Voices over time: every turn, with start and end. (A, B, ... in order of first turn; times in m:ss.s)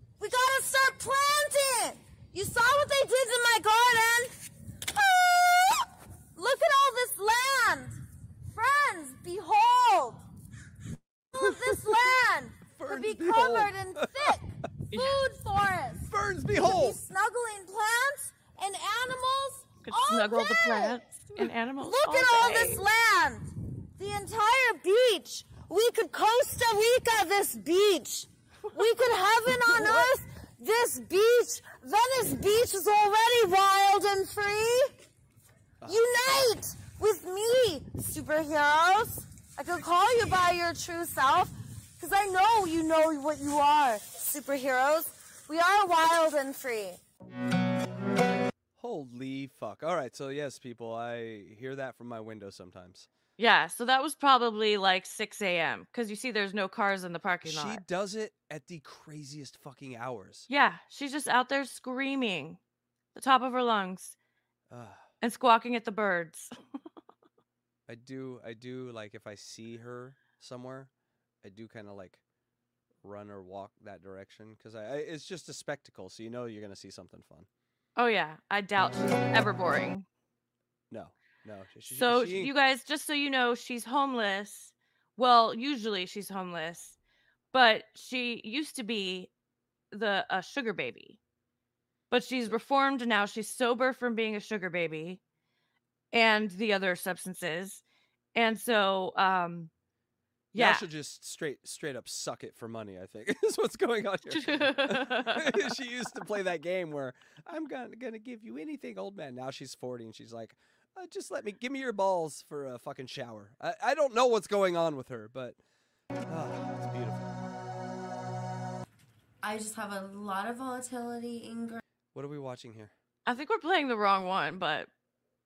0:00.2-0:08.0 A
0:08.5-0:10.2 A
0:11.3-0:21.0 A
0:11.4-0:12.1 B
0:12.8-0:14.2 B
0:14.9-0:15.2 C
0:16.0-0:17.0 B
0:19.8-0:22.8 C
0:21.8-0:34.9 A
0:35.8-0:47.0 A
0:48.8-0:53.1 B
0:53.4-0:57.8 C
0:57.4-1:00.5 B
1:00.5-1:02.6 C
1:03.2-1:04.2 C
1:04.7-1:05.0 B
1:05.2-1:06.5 C
1:07.9-1:10.9 B
1:11.4-1:12.2 B
1:13.0-1:17.5 B
1:18.0-1:20.1 C
1:20.9-1:22.5 B
1:21.9-1:27.0 C
1:27.5-1:29.3 C
1:29.9-1:31.2 C
1:32.1-1:35.2 C
1:36.1-1:37.8 C
1:38.4-1:39.7 C
1:40.5-1:40.9 C
1:40.6-1:55.6 B
1:44.3-1:45.6 C
1:56.3-1:57.3 B
1:59.4-2:01.8 D
2:02.1-2:02.9 B
2:03.3-2:04.9 C